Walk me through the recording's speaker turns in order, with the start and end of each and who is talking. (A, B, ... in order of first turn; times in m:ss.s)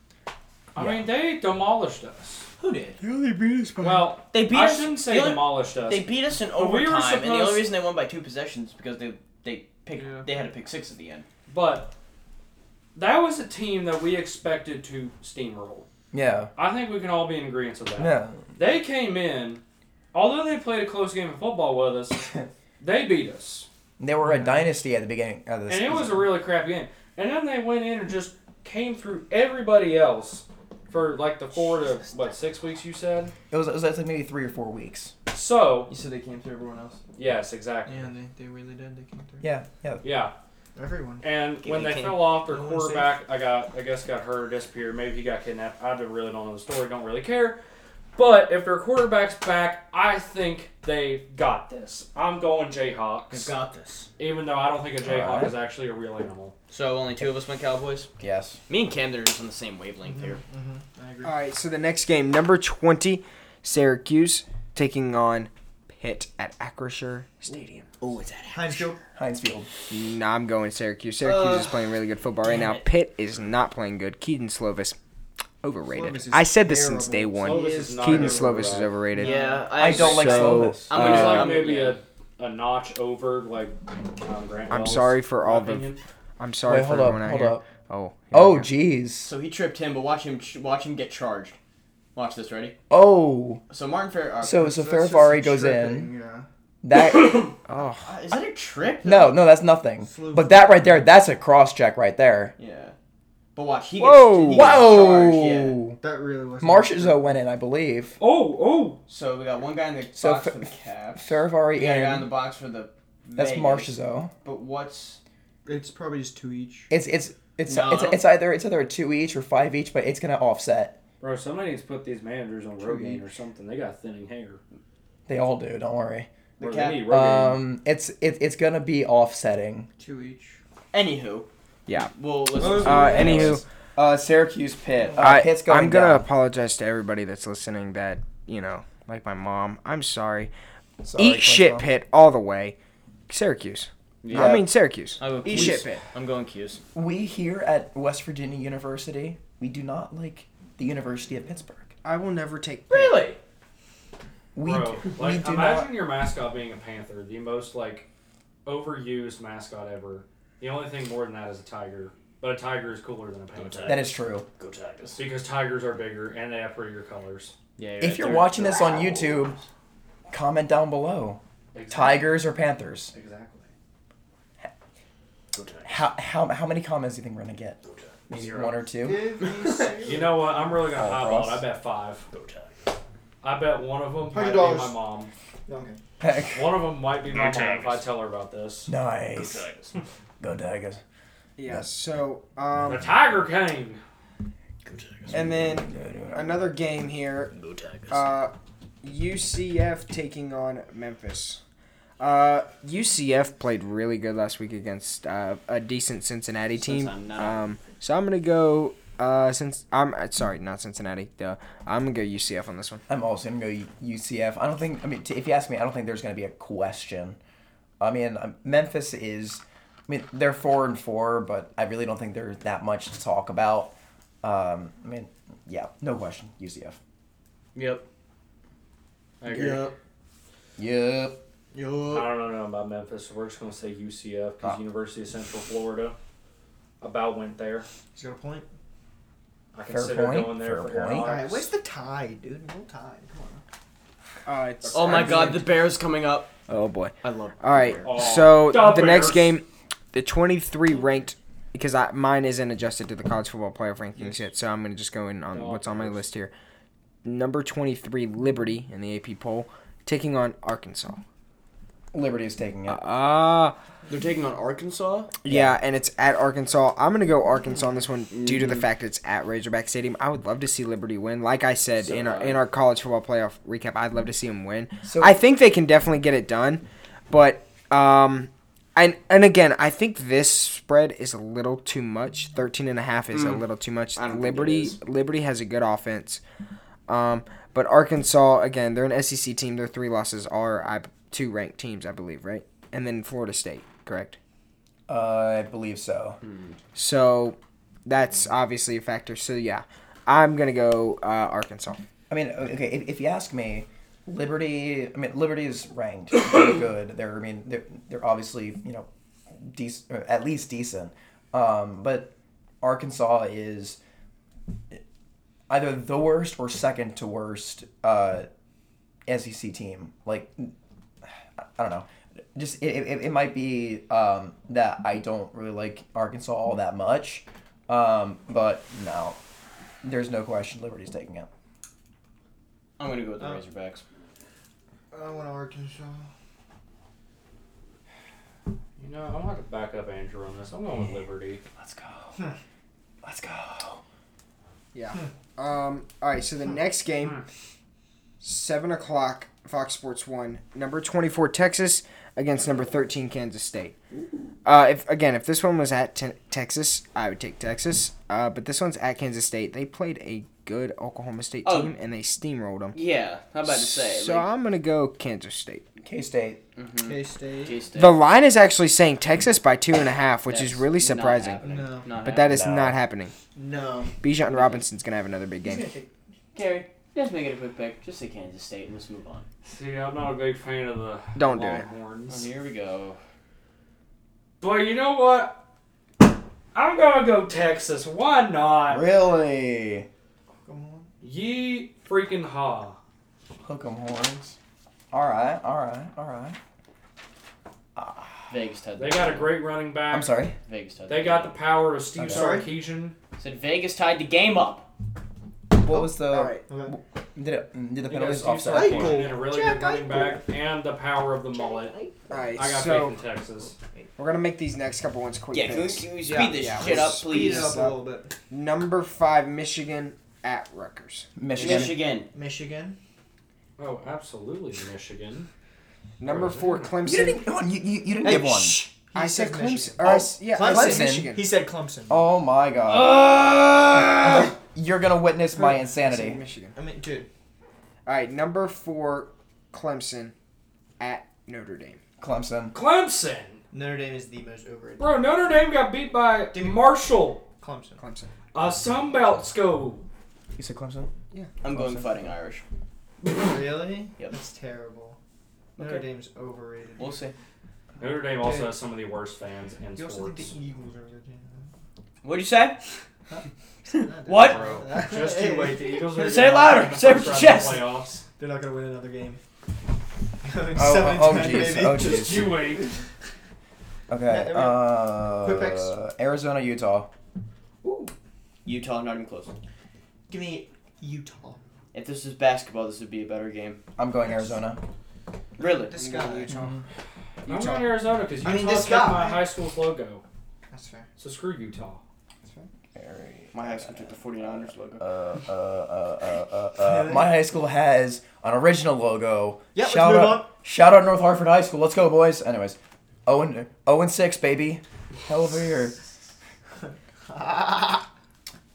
0:00.7-0:02.5 A
0:00.8-0:01.1 B
0:02.6-0:03.0 C
0:03.2-0:03.8 D
0:03.8-0:07.7 A
0:04.3-0:11.3 C
0:10.0-0:10.3 E
0:11.5-0:11.9 A
0:13.0-0:15.9 A
0:16.1-0:16.5 B
0:16.6-0:19.6 A
0:18.0-0:18.5 B
0:20.1-0:23.7 A
0:24.0-0:26.4 B
0:24.2-0:24.7 E
0:25.7-0:33.3 A
0:33.5-0:35.1 B
0:35.3-0:35.9 A
0:35.9-0:37.0 C
0:37.2-0:38.1 A
0:37.9-0:39.5 E
0:39.4-0:40.1 B
0:40.0-0:40.3 A
0:40.8-0:41.2 E
0:41.2-0:47.6 A
0:41.6-0:42.4 C
0:42.4-0:43.2 E
0:48.2-0:53.5 A
0:53.3-0:54.1 C
0:54.2-0:56.6 A
0:55.0-0:55.6 B
0:56.7-0:58.1 C
0:58.2-0:58.6 B
0:58.7-1:00.4 C
1:00.0-1:01.4 E
1:01.2-1:07.9 D
1:08.2-1:09.0 E
1:09.1-1:09.7 B
1:09.9-1:15.0 D
1:11.2-1:11.8 C
1:12.5-1:12.8 C
1:15.6-1:21.0 D
1:15.9-1:19.7 E
1:17.4-1:19.0 A
1:19.2-1:22.0 C
1:19.8-1:21.6 B
1:20.9-1:26.0 A
1:24.7-1:28.7 D
1:26.6-1:27.6 B
1:28.3-1:29.3 B
1:29.2-1:31.6 C
1:32.2-1:32.8 C
1:32.9-1:33.6 B
1:33.7-1:34.6 C
1:34.4-1:36.1 B
1:34.5-1:36.5 E
1:36.8-1:37.5 B
1:37.7-1:38.2 D
1:38.0-1:39.3 C
1:39.0-1:42.6 B
1:40.0-1:41.0 E
1:42.6-1:43.0 C
1:43.6-1:45.8 C
1:44.0-1:44.9 D
1:44.5-1:46.0 B
1:46.0-1:47.4 E
1:46.6-1:48.2 B
1:48.2-1:49.0 A
1:49.1-1:55.2 C
1:50.2-1:52.3 B
1:53.4-1:54.3 B
1:55.6-1:56.9 E
1:56.9-2:01.0 B
1:57.7-1:58.2 C
2:01.2-2:04.6 A
2:02.8-2:03.2 B
2:05.3-2:06.3 B
2:06.6-2:07.1 C
2:06.6-2:07.6 A
2:07.0-2:09.9 B
2:10.0-2:10.6 E
2:10.9-2:11.5 C
2:12.1-2:13.6 C
2:12.6-2:13.1 E
2:12.7-2:13.6 D
2:12.8-2:16.3 B
2:14.9-2:15.2 E
2:15.2-2:20.5 D
2:21.0-2:21.9 B
2:21.2-2:22.8 D
2:23.3-2:26.0 D
2:24.2-2:24.6 C
2:24.3-2:24.6 B
2:25.2-2:26.8 C
2:26.9-2:31.9 B
2:32.0-2:33.2 D
2:32.9-2:33.4 C
2:34.6-2:35.9 B
2:34.6-2:38.1 A
2:38.7-2:44.2 A
2:43.6-2:45.2 C
2:43.9-2:44.5 B
2:45.2-2:47.5 A
2:47.8-2:49.6 C
2:48.0-2:49.6 B
2:50.3-2:53.1 B
2:51.7-2:52.3 A
2:53.1-2:53.7 A
2:55.5-2:56.0 C
2:55.9-2:59.3 B
2:57.8-2:58.6 C
2:58.4-2:58.7 A
2:59.0-3:00.5 E
2:59.4-3:00.0 C
3:00.0-3:02.3 A
3:00.9-3:01.6 B
3:02.3-3:02.7 C
3:03.4-3:05.3 A
3:04.3-3:05.0 E
3:05.7-3:06.0 E
3:06.2-3:06.8 B
3:06.5-3:08.9 A
3:07.3-3:08.0 C
3:08.9-3:09.7 B
3:09.4-3:09.9 C
3:10.4-3:11.0 B
3:11.6-3:13.1 D
3:12.9-3:14.0 A
3:14.8-3:15.4 C
3:15.3-3:16.7 B
3:15.3-3:17.5 D
3:17.5-3:18.3 C
3:18.1-3:21.6 D
3:22.2-3:33.0 D
3:26.7-3:27.6 C
3:33.1-3:37.4 B
3:38.0-3:47.0 B
3:47.8-3:48.0 C
3:49.4-3:49.9 A
3:49.4-3:50.0 C
3:50.8-3:51.4 B
3:51.7-3:52.3 C
3:52.1-3:56.2 A
3:57.0-3:57.9 A
3:58.2-3:58.7 E
3:59.7-4:01.7 A
3:59.9-4:01.3 B
4:01.1-4:03.6 E
4:04.5-4:05.7 D
4:04.8-4:05.6 A
4:04.9-4:06.5 C
4:06.7-4:16.5 D
4:07.2-4:08.2 C
4:08.0-4:09.6 A
4:15.5-4:16.2 A
4:17.2-4:21.2 D
4:22.1-4:23.0 B
4:22.9-4:23.8 D
4:24.1-4:25.3 C
4:25.4-4:46.4 D
4:25.5-4:25.8 B
4:28.3-4:28.9 C
4:32.0-4:32.6 C
4:35.0-4:35.4 B
4:43.3-4:43.6 C
4:44.2-4:45.0 C
4:47.1-4:54.4 D
4:55.1-4:56.4 B
4:56.4-4:56.8 C
4:57.0-5:02.0 D
5:02.3-5:14.0 B
5:15.7-5:18.5 B
5:19.3-5:20.7 B
5:21.6-5:29.4 B
5:30.0-5:31.5 B
5:33.0-5:34.0 C
5:35.1-5:36.3 E
5:39.0-5:41.6 A
5:41.8-5:42.4 B
5:43.2-5:44.0 B
5:44.9-5:47.4 D
5:48.4-5:54.0 D
5:54.6-6:03.0 D
6:01.6-6:01.9 C
6:02.9-6:04.5 C
6:03.7-6:05.8 D
6:06.0-6:06.6 B
6:06.8-6:08.2 C
6:07.0-6:07.8 E
6:08.0-6:11.6 D
6:10.5-6:12.6 C
6:11.6-6:12.1 E
6:12.2-6:13.3 D
6:12.5-6:13.0 B
6:13.6-6:14.2 E
6:14.2-6:15.9 D
6:14.5-6:14.8 C
6:15.6-6:16.1 E
6:16.5-6:19.5 C
6:19.7-6:22.5 A
6:21.4-6:21.9 D
6:22.3-6:23.2 C
6:24.6-6:25.6 A
6:26.3-6:29.0 A
6:28.9-6:30.1 B
6:30.7-6:31.1 E
6:31.2-6:33.0 A
6:33.6-6:34.6 B
6:35.1-6:36.6 B
6:38.0-6:38.5 B
6:38.5-6:39.6 C
6:39.0-6:40.4 A
6:40.1-6:40.6 B
6:40.6-6:41.6 C
6:41.1-6:43.2 A
6:42.2-6:42.5 B
6:42.3-6:42.7 E
6:43.4-6:44.9 C
6:45.7-6:49.3 B
6:45.9-6:46.6 D
6:46.6-6:46.9 E
6:48.1-6:52.0 A
6:48.7-6:50.5 E
6:51.5-6:53.0 E
6:52.3-6:53.2 D
6:52.6-6:53.8 A
6:53.7-6:54.1 E
6:54.2-6:58.0 D
6:55.5-6:57.7 C
6:56.7-6:58.3 E
6:58.5-7:01.9 D
7:01.4-7:02.0 B
7:01.5-7:02.3 C
7:02.3-7:03.0 E
7:03.8-7:05.5 A
7:06.2-7:07.4 D
7:06.2-7:07.0 A
7:07.0-7:08.9 B
7:08.2-7:12.2 E
7:09.2-7:11.4 D
7:10.0-7:11.3 B
7:12.1-7:16.4 B
7:15.6-7:16.8 D
7:16.8-7:17.3 E
7:18.1-7:20.3 D
7:21.0-7:22.0 D
7:22.2-7:22.8 B
7:22.7-7:23.6 A
7:23.7-7:25.2 E
7:25.0-7:27.4 A
7:26.5-7:27.0 E
7:27.6-7:28.0 E
7:28.0-7:28.3 D
7:28.5-7:30.0 A
7:30.6-7:31.1 B
7:31.6-7:32.6 C
7:31.7-7:32.3 B
7:33.2-7:35.2 E
7:35.8-7:36.0 C
7:35.8-7:37.2 E
7:37.0-7:37.4 C
7:38.0-7:40.5 A
7:38.4-7:38.8 E
7:40.0-7:41.7 E
7:42.2-7:42.8 C
7:43.3-7:46.0 E
7:43.9-7:44.8 C
7:44.4-7:48.2 A
7:46.1-7:47.8 C
7:47.4-7:47.6 E
7:48.4-7:49.4 E
7:50.4-7:52.6 E
7:50.8-7:52.6 B
7:51.8-7:52.9 A
7:54.1-7:57.1 B
7:54.3-7:56.0 E
7:58.6-7:59.6 C
8:00.3-8:01.6 E
8:01.9-8:03.8 C
8:04.0-8:04.8 B
8:05.6-8:06.4 C
8:05.6-8:06.7 E
8:06.5-8:06.8 B
8:07.4-8:10.2 A
8:08.4-8:09.5 E
8:10.7-8:11.1 E
8:11.2-8:12.0 A
8:12.4-8:12.7 E
8:13.0-8:26.0 B
8:13.5-8:15.0 C
8:16.8-8:17.3 E
8:19.8-8:20.5 E
8:26.9-8:28.1 E